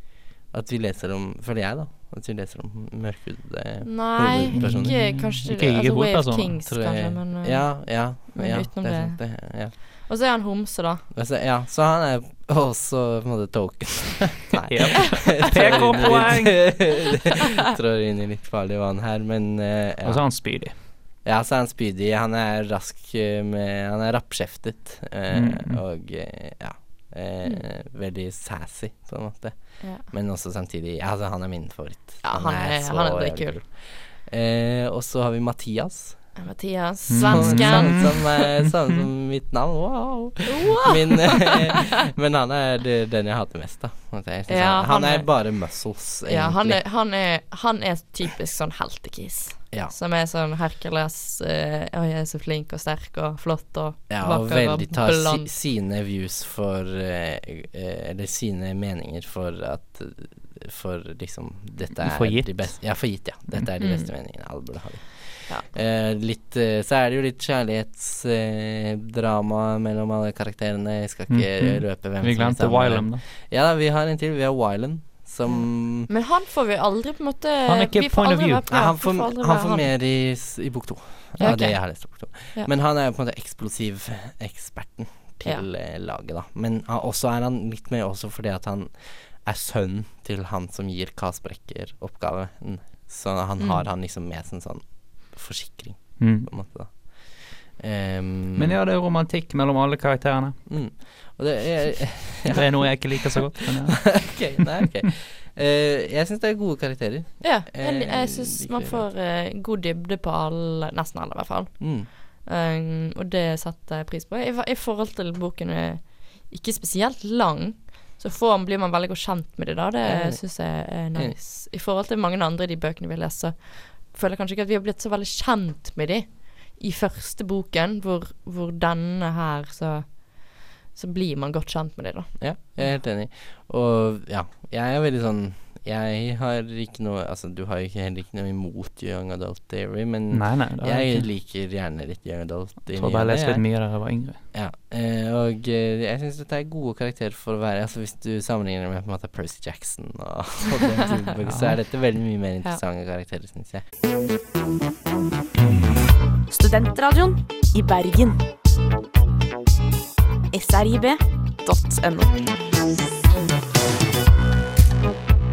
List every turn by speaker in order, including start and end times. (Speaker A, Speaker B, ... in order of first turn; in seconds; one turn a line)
Speaker A: 0.5-5.0
Speaker B: 3.8-11.0
Speaker C: 4.3-6.6
Speaker A: 6.7-9.8
Speaker A: 11.1-20.2
Speaker C: 14.7-16.9
Speaker B: 15.2-16.2
Speaker C: 20.0-20.7
Speaker A: 21.2-36.3
Speaker C: 25.3-25.8
Speaker B: 29.8-30.0
Speaker B: 32.2-33.6
Speaker B: 36.4-38.4
Speaker C: 37.1-38.9
Speaker A: 37.2-46.8
Speaker B: 40.5-41.8
Speaker B: 44.5-45.5
Speaker B: 46.3-55.5
Speaker A: 54.1-76.1
Speaker C: 62.0-62.8
Speaker B: 63.8-64.1
Speaker C: 71.3-73.2
Speaker B: 75.5-79.9
Speaker C: 77.7-78.6
Speaker A: 78.7-98.8
Speaker B: 81.4-82.7
Speaker B: 93.6-93.8
Speaker C: 96.2-96.5
Speaker C: 98.6-100.6
Speaker A: 100.7-109.0
Speaker C: 102.5-104.6
Speaker B: 107.4-133.0
Speaker A: 111.8-112.1
Speaker A: 120.0-121.4
Speaker A: 132.4-143.7
Speaker C: 140.3-141.3
Speaker C: 142.9-144.4
Speaker A: 144.5-153.8
Speaker C: 151.4-151.8
Speaker D: 156.5-158.4
Speaker D: 160.5-162.3